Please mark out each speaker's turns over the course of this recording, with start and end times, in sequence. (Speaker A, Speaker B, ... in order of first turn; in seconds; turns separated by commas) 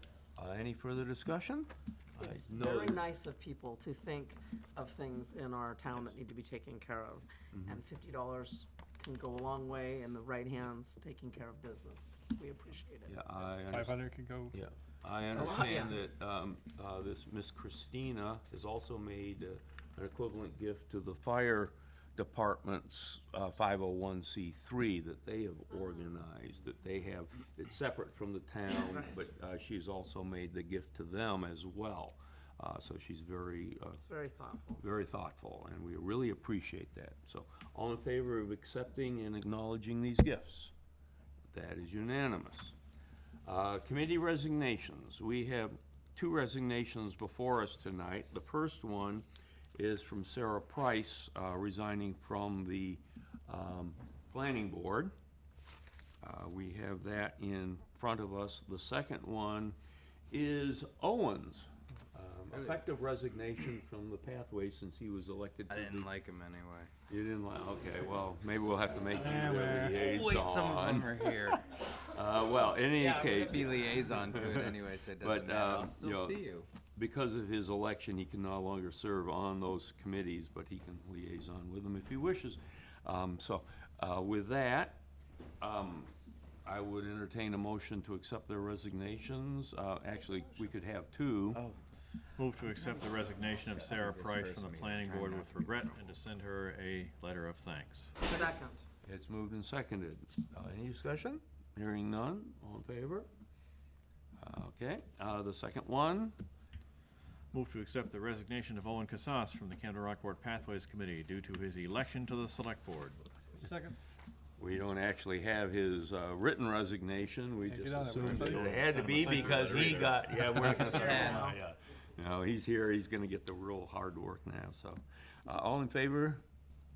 Speaker A: 0.3-3.0, Speaker B: 2.2-13.1, Speaker A: 7.5-7.8, Speaker A: 13.1-34.0, Speaker C: 13.7-14.6, Speaker B: 15.3-15.9, Speaker B: 34.0-34.8, Speaker A: 34.8-40.7, Speaker A: 41.5-42.7, Speaker A: 43.4-55.1, Speaker A: 56.2-59.8, Speaker A: 60.3-66.1, Speaker D: 62.5-62.8, Speaker D: 65.7-66.9, Speaker A: 67.1-85.0, Speaker C: 69.2-70.0, Speaker D: 69.9-71.6, Speaker D: 73.0-76.7, Speaker A: 85.6-86.1, Speaker A: 86.6-91.6, Speaker D: 91.5-91.8, Speaker E: 92.4-98.2, Speaker D: 93.5-96.0, Speaker B: 98.2-98.8, Speaker A: 99.0-103.3, Speaker A: 104.4-106.3, Speaker E: 107.5-113.3, Speaker C: 113.6-114.0, Speaker A: 114.6-126.4, Speaker C: 117.6-121.4, Speaker E: 119.0-120.9, Speaker D: 119.2-119.8, Speaker D: 120.6-121.5, Speaker B: 120.8-121.6